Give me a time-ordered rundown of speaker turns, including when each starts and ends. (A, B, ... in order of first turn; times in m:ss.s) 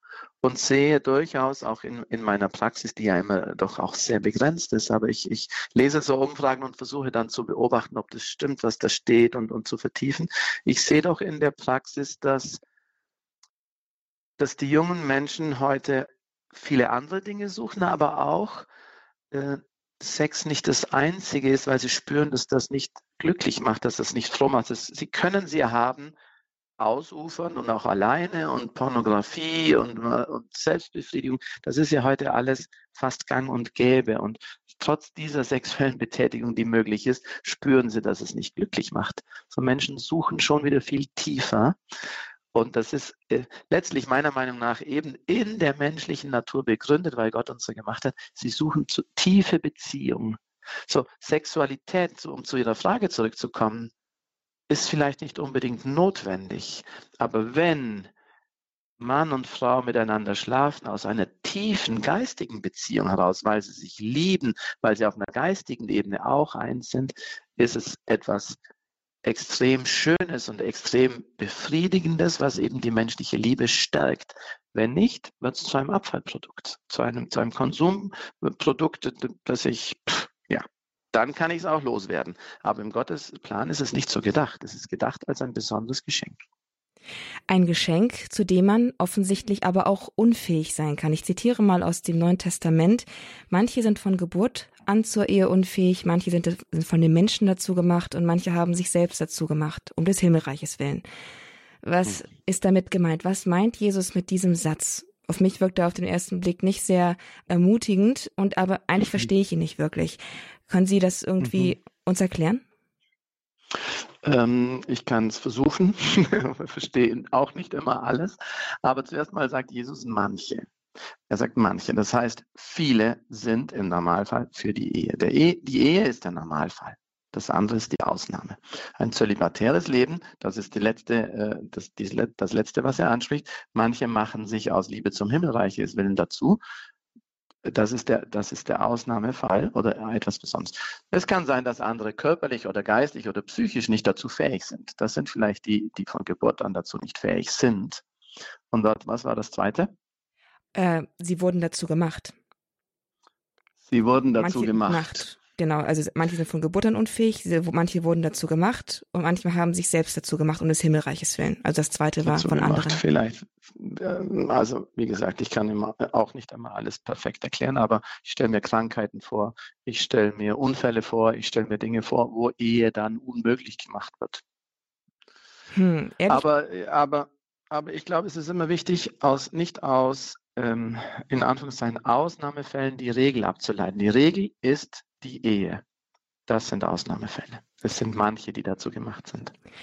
0:00.4-0:12.6 A
0:14.4-0:18.7 A
0:19.3-0:26.1 A
0:26.8-0:41.8 A
0:42.5-0:53.9 A
0:54.7-0:58.1 A
0:59.0-1:08.6 A
1:09.2-1:26.4 A
1:27.5-1:41.0 B
1:41.8-1:52.6 B
1:51.4-1:51.7 A
1:54.2-2:00.7 A
2:01.3-2:16.6 A
2:17.6-2:28.0 A
2:28.7-2:29.9 A
2:30.7-2:32.3 B
2:33.9-2:35.2 A
2:34.4-2:43.0 B
2:42.2-2:54.4 A
2:55.7-2:56.4 B
2:56.3-3:05.8 A
3:06.5-3:09.5 A